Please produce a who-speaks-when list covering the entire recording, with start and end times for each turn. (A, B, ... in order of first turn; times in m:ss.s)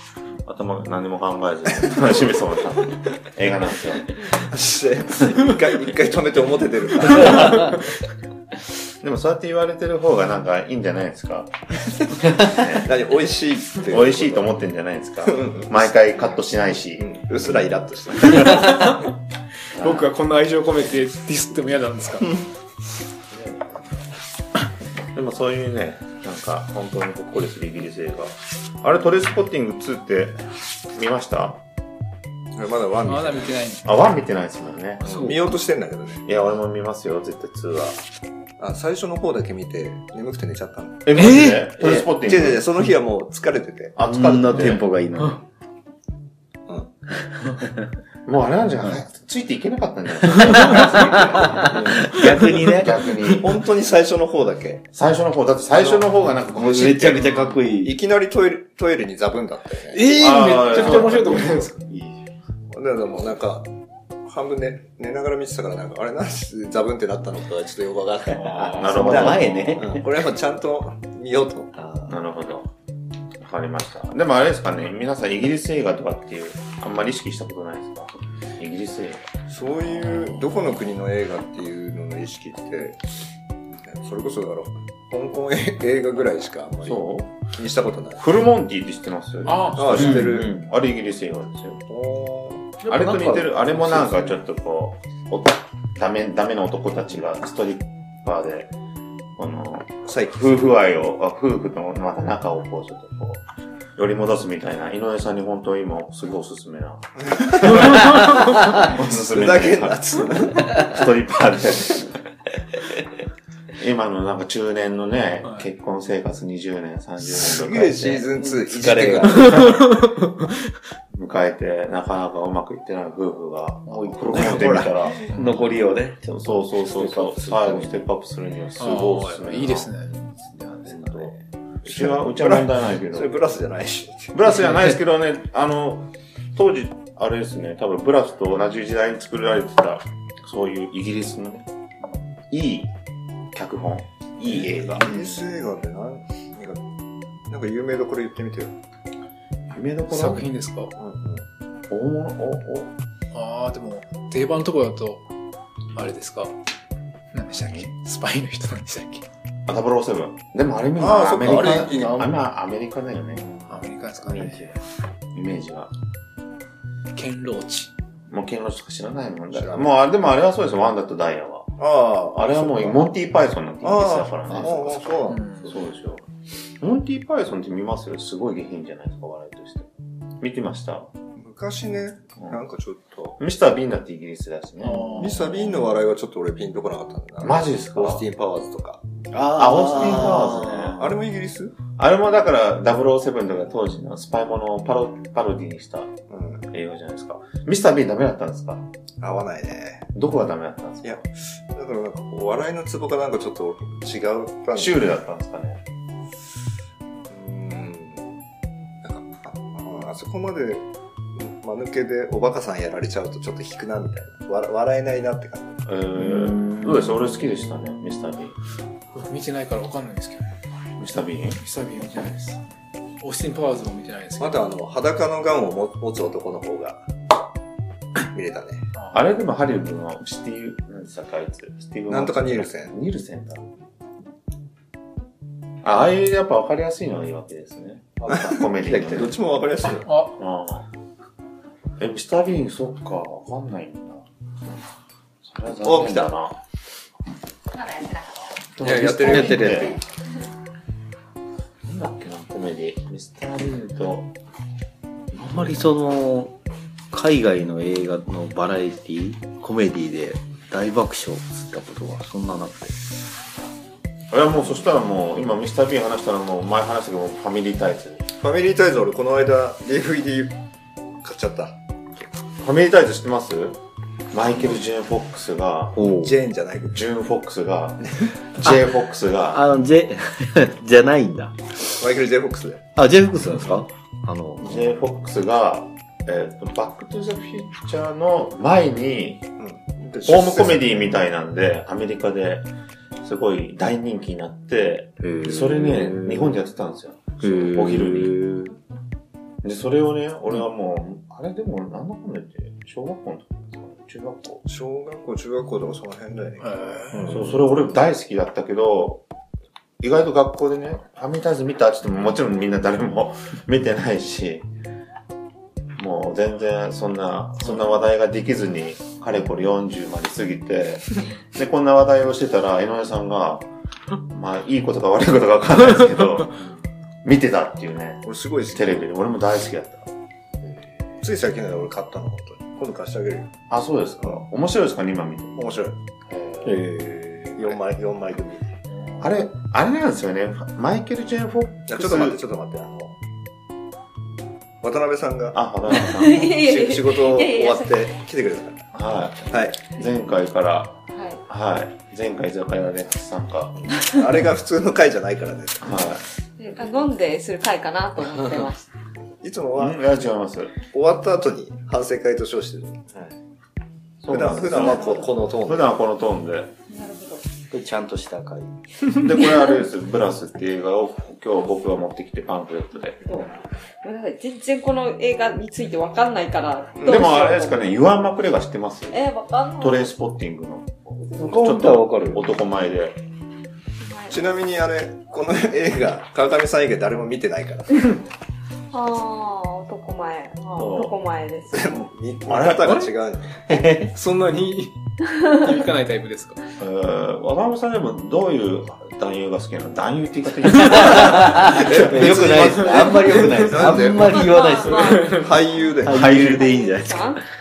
0:00.4-0:04.1 A
0:04.4-0:07.7 B
0:09.0-0:12.9 A
0:12.8-0:14.5 B
0:13.9-0:17.1 A
0:15.2-0:15.9 B
0:17.0-0:18.8 B
0:18.4-0:19.1 C
0:19.8-0:20.1 A
0:19.8-0:22.3 C
0:25.1-0:30.4 A
0:30.9-0:31.6 A
0:32.5-0:33.6 B
0:33.0-0:33.9 C
0:33.8-0:35.3 A
0:35.0-0:35.4 C
0:35.0-0:36.2 B
0:36.2-0:38.0 A
0:38.6-0:41.1 B
0:41.1-0:42.7 A
0:41.1-0:41.6 C
0:41.8-0:42.1 D
0:42.1-0:44.8 B
0:44.0-0:44.8 A
0:44.0-0:45.4 D
0:48.2-0:53.5 A
0:51.0-0:53.0 D
0:52.1-0:52.7 C
0:53.3-0:54.8 B
0:54.9-0:57.2 A
0:55.7-0:56.1 B
0:56.5-0:58.0 D
0:57.2-0:57.6 C
0:57.8-1:00.1 B
0:59.9-1:01.8 C
1:00.1-1:01.7 A
1:01.9-1:02.2 D
1:02.7-1:03.7 B
1:04.2-1:11.7 B
1:08.3-1:10.0 D
1:08.4-1:09.0 C
1:08.8-1:09.9 A
1:11.7-1:12.2 D
1:12.1-1:12.7 A
1:13.4-1:19.3 A
1:19.5-1:23.0 B
1:23.8-1:28.2 B
1:26.8-1:27.3 A
1:28.2-1:31.8 A
1:29.4-1:30.3 C
1:29.8-1:30.6 B
1:30.1-1:30.7 D
1:31.9-1:32.8 B
1:32.8-1:34.4 D
1:32.8-1:38.7 A
1:39.4-1:43.4 A
1:40.1-1:40.5 B
1:44.0-1:50.0 A
1:48.1-1:48.6 D
1:49.1-1:50.8 B
1:50.7-1:52.2 A
1:53.8-1:58.3 A
1:57.2-1:59.6 B
1:58.3-1:59.6 D
1:59.4-1:59.9 A
1:59.5-2:00.5 C
2:01.1-2:10.0 A
2:03.9-2:08.0 D
2:04.3-2:05.0 B
2:08.8-2:10.1 C
2:10.1-2:11.4 D
2:10.7-2:13.4 A
2:11.8-2:14.3 B
2:14.3-2:21.7 A
2:22.5-2:22.9 A
2:23.5-2:25.1 A
2:24.9-2:25.4 D
2:25.0-2:26.8 B
2:27.5-2:28.7 B
2:29.7-2:30.5 A
2:30.1-2:30.9 C
2:31.0-2:31.4 B
2:31.9-2:32.9 A
2:33.3-2:35.2 C
2:35.9-2:36.5 C
2:37.3-2:39.2 C
2:37.5-2:37.9 A
2:39.7-2:43.4 A
2:41.0-2:42.3 B
2:41.8-2:42.3 C
2:43.4-2:44.8 D
2:43.7-2:44.6 C
2:45.3-2:45.9 A
2:47.2-2:47.9 C
2:48.3-2:51.7 A
2:49.5-2:49.9 B
2:51.8-2:53.1 B
2:52.3-2:56.2 A
2:53.8-2:55.8 B
2:55.3-2:55.7 C
2:56.8-2:59.9 A
3:00.4-3:01.1 A
3:01.4-3:03.4 B
3:03.4-3:05.8 A
3:04.8-3:05.3 C
3:05.2-3:09.0 B
3:07.4-3:08.2 A
3:09.3-3:11.2 D
3:09.6-3:11.0 A
3:09.9-3:10.3 B
3:11.0-3:11.7 B
3:12.0-3:16.1 A
3:16.3-3:16.7 B
3:16.7-3:18.9 A
3:19.2-3:20.1 B
3:20.2-3:21.2 A
3:21.0-3:25.1 B
3:24.7-3:25.8 A
3:27.3-3:28.2 B
3:29.0-3:35.8 B
3:35.8-3:38.6 A
3:36.2-3:37.1 D
3:39.1-3:40.5 C
3:41.0-3:41.6 A
3:41.6-3:42.6 C
3:43.2-3:44.7 C
3:44.4-3:47.0 B
3:48.3-3:48.8 B
3:49.0-3:49.2 C
3:49.1-3:53.7 A
3:52.1-3:52.9 B
3:55.8-3:59.4 A
3:58.2-3:58.4 D
3:58.3-4:00.1 B
3:59.0-3:59.3 D
4:00.0-4:00.4 C
4:00.4-4:00.9 A
4:02.0-4:04.2 A
4:05.4-4:06.6 A
4:05.8-4:06.4 B
4:08.7-4:10.0 A
4:08.8-4:09.9 B
4:09.2-4:10.0 D
4:11.8-4:14.3 A
4:15.4-4:16.6 D
4:15.4-4:15.8 A
4:17.1-4:23.0 D
4:24.3-4:28.2 A
4:28.4-4:30.6 B
4:31.2-4:32.3 B
4:32.6-4:33.8 A
4:34.3-4:36.0 A
4:35.9-4:36.3 D
4:36.1-4:37.0 B
4:36.9-4:39.6 A
4:39.5-4:41.6 D
4:42.0-4:42.8 B
4:42.9-4:45.0 D
4:44.6-4:49.5 A
4:49.6-4:51.2 B
4:50.2-4:52.7 A
4:53.2-4:58.4 A
4:55.2-4:56.6 D
4:57.4-4:58.8 D
4:59.6-5:04.6 A
5:04.7-5:07.5 B
5:06.6-5:07.3 C
5:07.2-5:07.5 D
5:07.3-5:09.2 A
5:10.0-5:14.7 A
5:16.0-5:23.7 A
5:24.3-5:26.6 A
5:27.2-5:30.1 A
5:28.2-5:29.1 B
5:31.2-5:33.5 B
5:33.7-5:36.8 A
5:35.6-5:36.0 B
5:36.6-5:37.9 D
5:37.6-5:38.6 B
5:39.2-5:42.4 A
5:41.9-5:43.2 B
5:44.8-5:45.6 B
5:45.5-5:46.5 A
5:45.9-5:48.1 E
5:46.3-5:48.8 B
5:48.9-5:53.7 A
5:49.5-5:49.8 B
5:51.1-5:51.4 E
5:53.9-5:56.2 B
5:55.8-5:56.2 A
5:56.6-5:58.9 E
5:59.4-6:00.0 B
5:59.7-6:00.7 A
6:00.9-6:03.1 B
6:04.2-6:06.7 A
6:04.3-6:06.0 B
6:04.7-6:05.4 E
6:06.9-6:07.4 E
6:07.7-6:08.8 D
6:09.2-6:13.4 A
6:13.2-6:18.0 E
6:17.0-6:19.2 A
6:19.1-6:20.2 E
6:19.8-6:23.2 A
6:21.3-6:22.4 D
6:24.0-6:24.5 E
6:24.3-6:28.1 B
6:28.9-6:32.0 E
6:30.8-6:31.2 A
6:31.7-6:33.9 B
6:32.5-6:33.1 A
6:33.7-6:34.1 D
6:34.0-6:36.6 C
6:36.8-6:41.5 A
6:40.9-6:45.2 D
6:41.6-6:44.6 B
6:42.8-6:43.6 C
6:43.9-6:45.5 E
6:44.8-6:45.5 C
6:45.4-6:46.6 B
6:46.0-6:47.3 D
6:46.0-6:47.4 E